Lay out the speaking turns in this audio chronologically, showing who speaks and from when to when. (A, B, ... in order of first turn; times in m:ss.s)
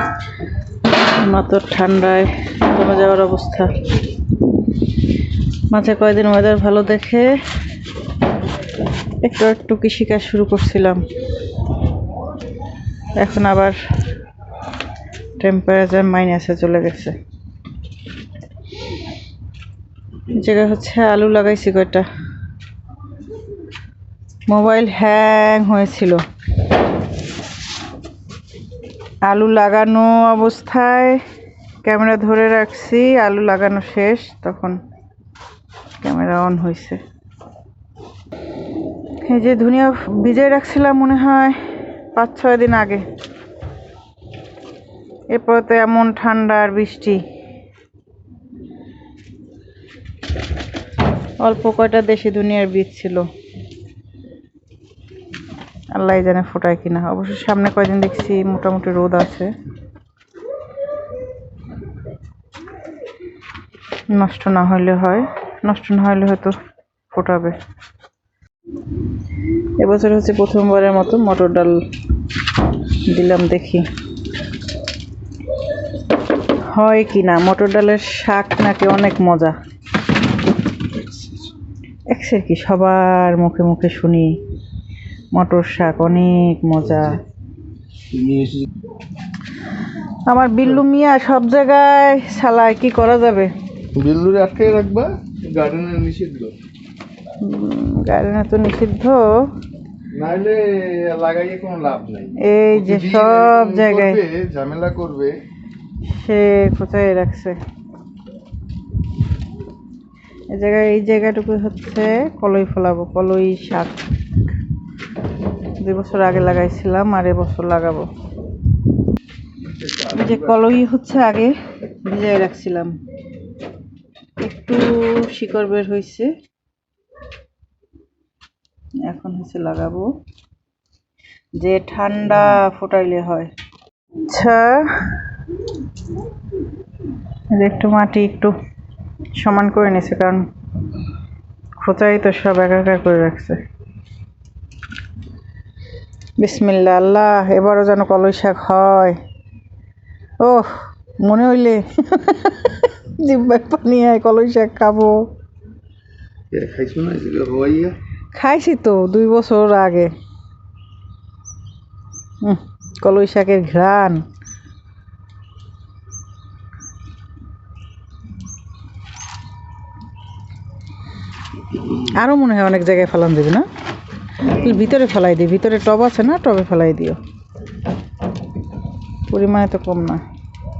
0:01.2-0:03.7 A
0:05.7-0:07.3 A
0:09.2-0:11.0 A
0:13.2-0:13.8 A
0:15.4-0:17.2 A
0:20.3-0:22.1 A
0:24.5-0:26.2 A
0:29.2-0:31.2 A
0:31.8-0:34.8 A
0:36.0-0:37.0 A
0:39.2-0:41.6 A
0:42.1-0:43.0 A
0:45.3-0:47.2 A
0:51.4-0:53.3 A
0:55.9-0:59.5 A
1:04.1-1:06.6 A
1:07.1-1:07.6 A
1:09.8-1:11.8 A
1:13.0-1:13.9 A
1:16.7-1:19.6 A
1:22.1-1:24.4 A
1:25.3-1:27.2 A
1:28.1-1:28.6 B
1:30.3-1:33.5 A
1:33.9-1:36.5 B
1:37.4-1:39.5 A
1:40.1-1:45.3 B
1:42.4-1:44.2 A
1:46.1-1:47.6 A
1:50.5-1:54.0 A
1:55.8-1:58.1 A
1:59.7-2:00.6 B
2:00.1-2:03.0 A
2:04.4-2:06.3 A
2:09.0-2:10.1 A
2:11.6-2:13.5 A
2:14.2-2:15.2 A
2:17.5-2:18.5 A
2:19.3-2:20.4 A
2:21.8-2:23.6 A
2:26.4-2:29.2 A
2:30.4-2:35.2 A
2:36.5-2:38.0 B
2:38.3-2:40.1 A
2:42.4-2:44.2 A
2:52.0-2:53.7 A
2:54.4-2:57.2 A
2:59.3-3:00.2 A